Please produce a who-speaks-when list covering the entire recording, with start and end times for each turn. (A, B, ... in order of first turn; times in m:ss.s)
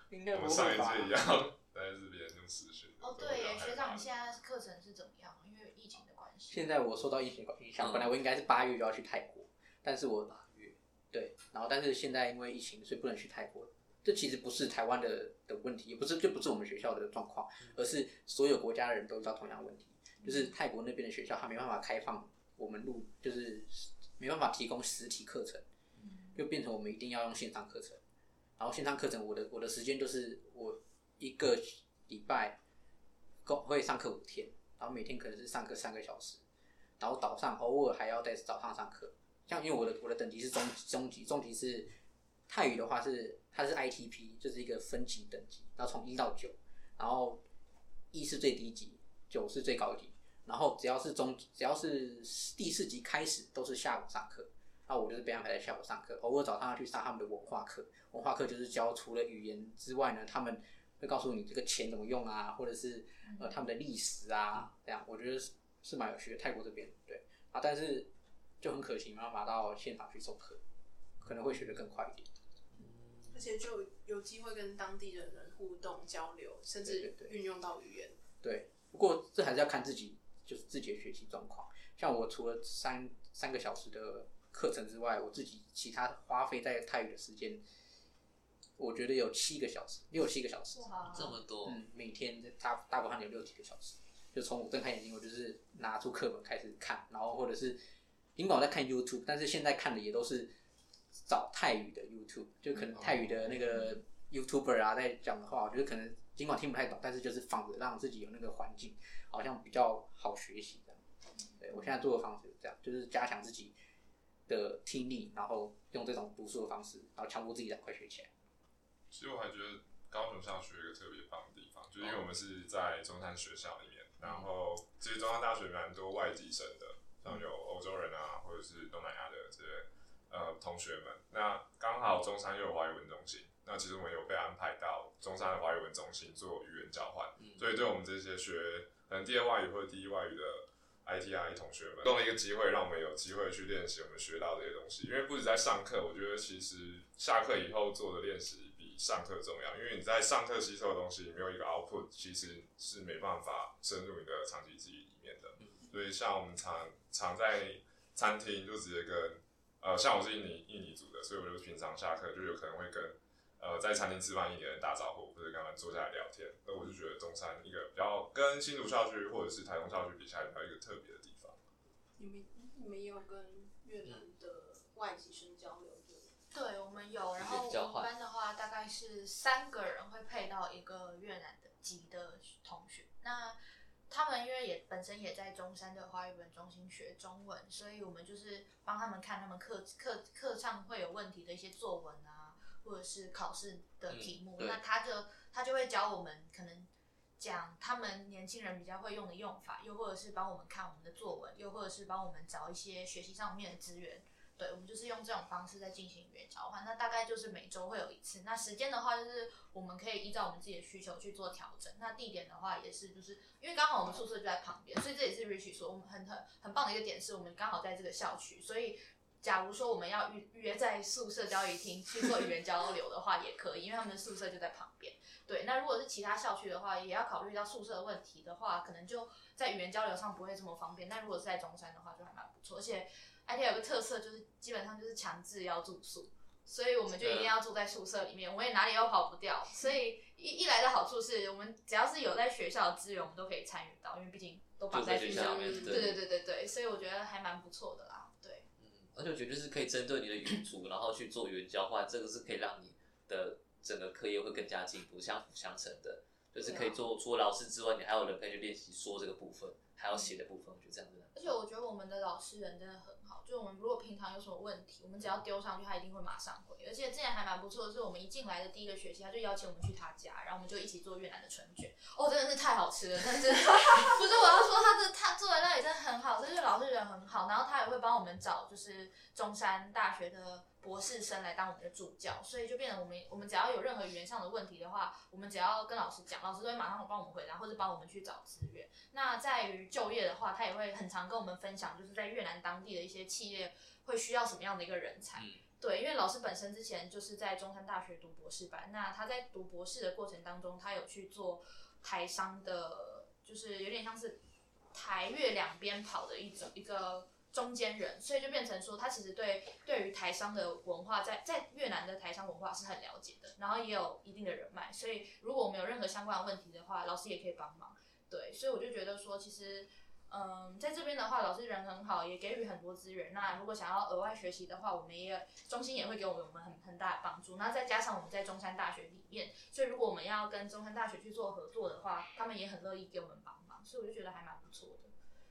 0:00.1-0:01.2 A
0:00.3-0:04.1 B
0:03.0-0:06.6 C
0:06.5-0:25.6 A
0:07.8-0:08.1 D
0:26.0-0:26.4 C
0:26.4-0:28.0 A
0:28.6-0:32.6 A
0:33.4-0:36.4 A
0:37.0-0:41.9 A
0:42.5-0:47.4 A
0:48.1-1:08.1 A
1:03.2-1:03.6 C
1:08.6-1:10.6 A
1:11.2-1:12.3 A
1:12.8-1:13.3 D
1:13.3-1:18.2 E
1:16.8-1:17.4 A
1:18.4-1:27.6 A
1:28.8-1:30.9 A
1:30.7-1:31.4 C
1:31.1-1:31.8 D
1:31.6-1:37.8 A
1:38.4-1:40.5 A
1:41.3-1:51.0 A
1:51.6-1:53.8 A
1:54.5-1:58.3 A
1:59.1-2:51.6 B
2:52.2-2:56.3 E
2:56.5-3:03.6 C
2:57.4-2:58.1 D
3:04.1-4:08.7 C
3:14.1-3:14.8 D
3:57.2-3:57.5 D
4:04.9-4:06.2 D
4:05.3-4:06.2 E
4:08.8-4:21.5 D
4:16.6-4:16.9 C
4:21.4-5:04.4 C
5:04.9-5:35.1 C